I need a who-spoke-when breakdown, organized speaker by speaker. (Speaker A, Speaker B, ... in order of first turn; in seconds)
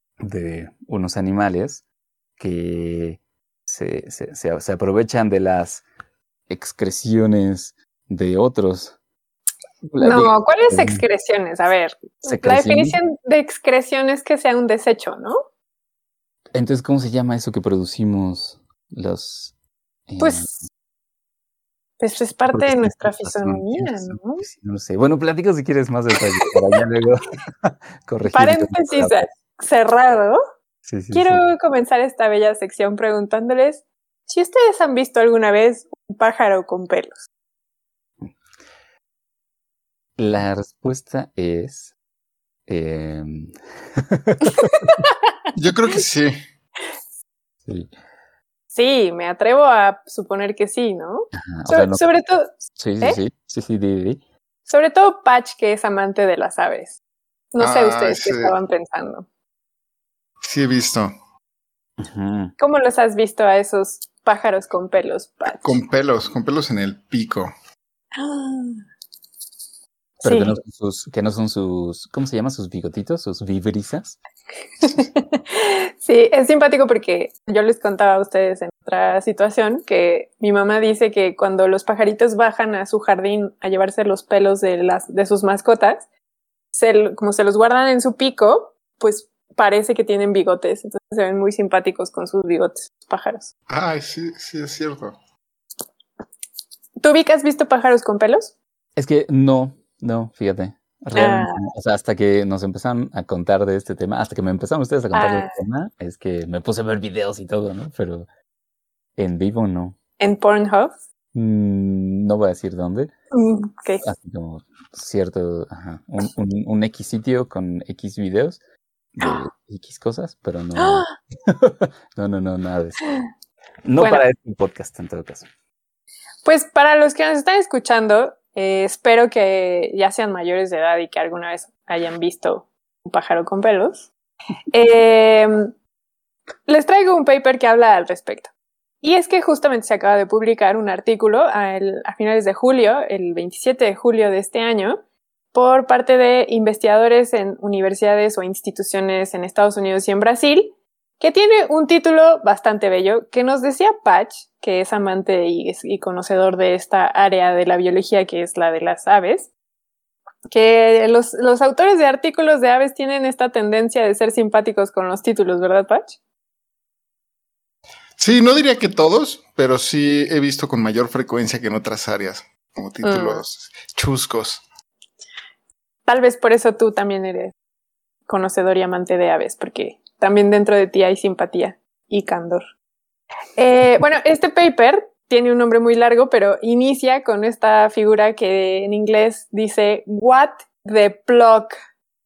Speaker A: 0.2-1.8, 2.4-5.8, 6.5-8.9, 9.9-11.0, 12.3-13.0, 16.5-19.5, 20.1-20.7, 22.5-29.4, 30.9-31.4, 40.2-41.9, 42.7-44.9, 47.7-47.9, 51.3-52.1, 52.8-54.2, 62.0-62.5, 70.2-74.2, 99.0-108.3, 109.2-110.0, 111.3-113.1, 114.0-118.6, 119.2-123.1, 123.8-125.5
Speaker B: 10.0-15.4, 20.2-20.6, 22.0-24.4, 28.3-30.4, 31.1-37.3, 44.6-44.9, 48.7-53.2, 54.7-57.0, 57.5-59.3, 62.6-65.8, 68.2-68.8, 70.2-70.6, 74.9-86.1, 86.7-93.5, 97.0-98.5, 101.2-101.6, 105.1-105.6, 110.2-110.9, 113.3-114.0, 120.8-121.1, 124.0-124.2, 126.5-134.1, 134.7-135.7, 136.7-145.0, 145.5-159.5, 160.5-166.2, 173.0-173.4, 176.1-177.5, 178.3-182.7, 183.6-191.8
Speaker C: 45.5-46.4, 57.6-58.5, 60.4-61.1, 65.6-67.5, 93.7-95.2, 168.2-174.6